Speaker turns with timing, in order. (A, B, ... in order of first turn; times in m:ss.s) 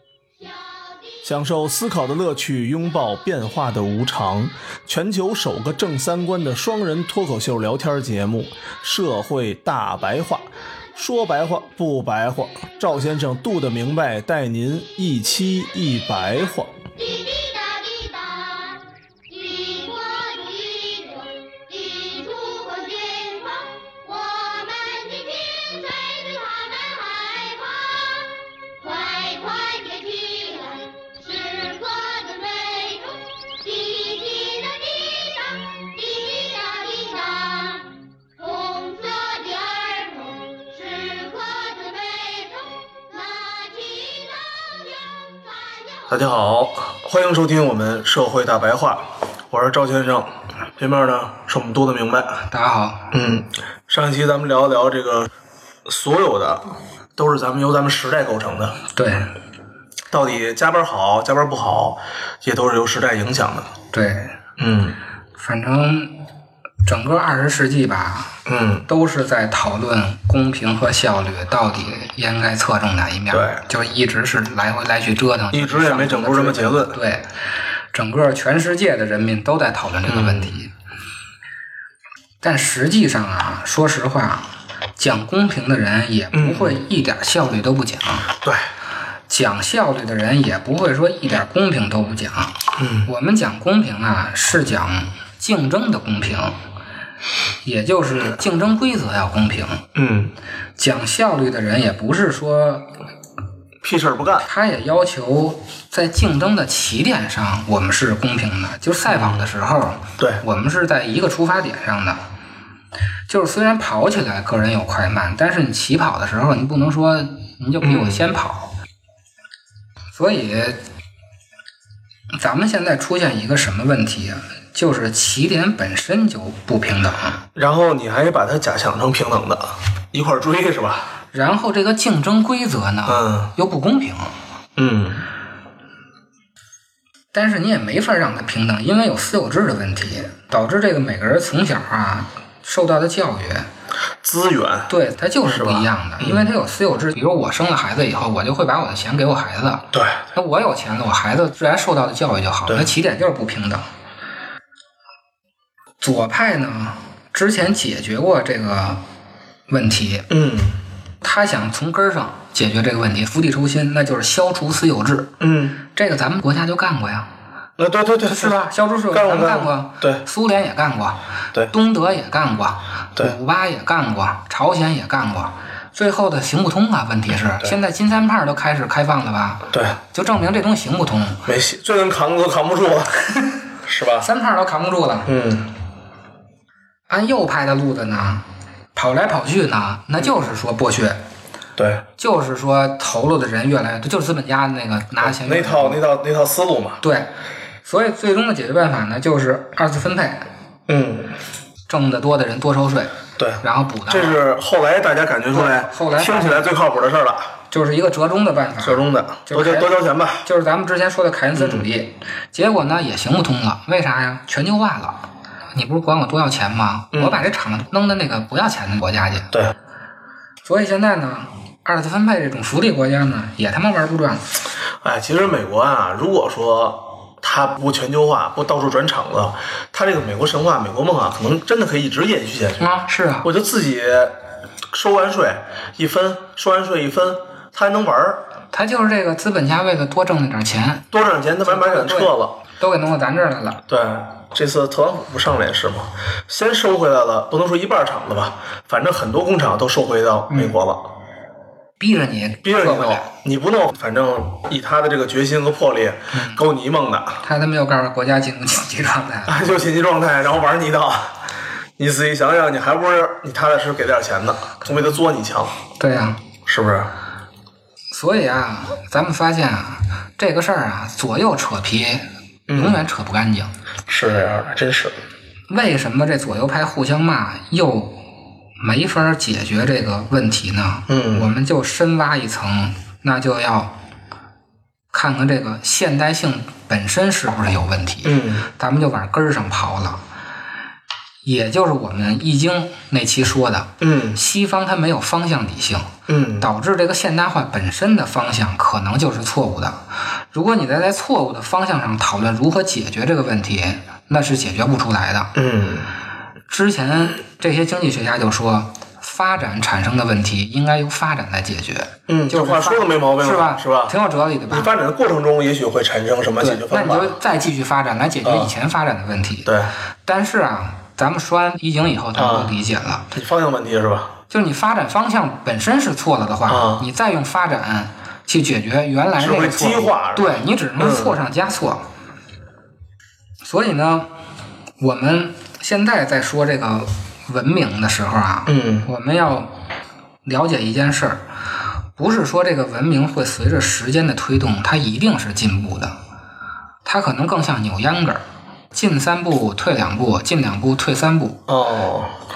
0:00.4-0:01.3 A
0:01.2-0:16.7 B
0:17.0-0:46.2 A
0:46.1-0:52.4 B
0:52.5-0:53.1 C
0:53.1-0:55.3 B
0:55.8-0:58.8 B
0:58.9-0:59.3 C
1:00.1-1:03.7 B
1:03.9-1:04.3 C
1:04.6-1:05.0 B
1:05.4-1:06.2 C
1:06.8-1:17.3 C
1:08.4-1:08.9 B
1:13.3-1:13.6 B
1:15.5-1:17.0 B
1:17.9-1:20.7 C
1:20.1-1:20.5 B
1:22.4-1:28.3 C
1:26.3-1:26.8 B
1:29.3-1:36.6 C
1:32.8-1:33.1 B
1:37.6-1:39.9 C
1:39.9-1:40.3 B
1:40.8-1:42.9 C
1:43.8-1:44.4 B
1:44.4-1:52.2 C
1:49.1-1:49.5 B
1:53.3-1:58.7 C
1:57.8-1:58.2 B
2:00.1-2:00.8 C
2:02.4-2:07.4 C
2:07.6-2:11.1 B
2:11.3-2:14.3 C
2:13.1-2:13.5 B
2:14.8-2:15.2 B
2:17.3-2:23.7 C
2:24.2-2:24.9 B
2:24.9-2:33.8 C
2:25.5-2:26.5 B
2:29.9-2:30.2 B
2:36.0-2:39.0 C
2:39.7-2:40.3 C
2:40.3-2:40.8 B
2:41.2-2:47.3 C
2:45.4-2:45.8 B
2:47.8-2:50.2 B
2:48.2-3:01.4 C
2:59.7-3:00.0 B
3:01.4-3:03.2 B
3:03.8-3:04.3 B
3:04.2-3:05.3 C
3:05.2-3:05.7 B
3:07.1-3:08.4 C
3:08.9-3:11.2 C
3:11.8-3:12.0 B
3:12.2-3:16.0 C
3:15.2-3:17.0 B
3:17.0-3:17.3 C
3:17.8-3:20.5 C
3:20.9-3:21.3 B
3:21.9-3:24.4 C
3:23.4-3:27.5 B
3:25.5-3:26.7 C
3:27.7-3:39.5 C
3:28.8-3:30.4 B
3:31.5-3:31.8 B
3:37.1-3:37.4 B
3:40.6-3:44.5 C
3:45.0-3:52.8 B
3:52.8-3:53.5 C
3:53.4-3:54.3 B
3:54.9-3:58.4 B
3:58.7-4:01.1 C
4:01.1-4:02.6 B
4:01.6-4:03.8 C
4:03.9-4:11.0 B
4:10.5-4:10.8 C
4:12.0-4:13.3 C
4:12.6-4:17.4 B
4:16.3-4:16.6 C
4:17.4-4:19.8 C
4:19.5-4:21.3 B
4:22.0-4:25.7 B
4:26.0-4:26.4 C
4:26.6-4:27.1 B
4:28.1-4:33.7 C
4:32.7-4:33.0 B
4:34.1-4:35.2 B
4:35.7-4:38.2 C
4:38.8-4:43.9 C
4:41.1-4:41.5 B
4:45.1-4:50.2 C
4:48.2-4:48.7 B
4:51.4-5:05.5 C
4:54.0-4:54.4 B
4:56.3-4:56.7 B
5:05.5-5:06.1 B
5:06.7-5:14.9 C
5:12.3-5:14.1 B
5:14.7-5:17.4 B
5:16.6-5:19.7 C
5:18.4-5:18.7 B
5:19.6-5:19.9 B
5:20.2-5:23.3 C
5:22.4-5:22.8 B
5:23.3-5:24.3 B
5:24.5-5:32.0 C
5:26.7-5:27.0 B
5:29.4-5:31.4 B
5:33.6-5:34.3 C
5:35.0-5:39.7 C
5:38.7-5:39.1 B
5:40.4-5:41.4 C
5:42.2-5:46.1 C
5:47.0-5:51.6 C
5:51.7-5:52.3 B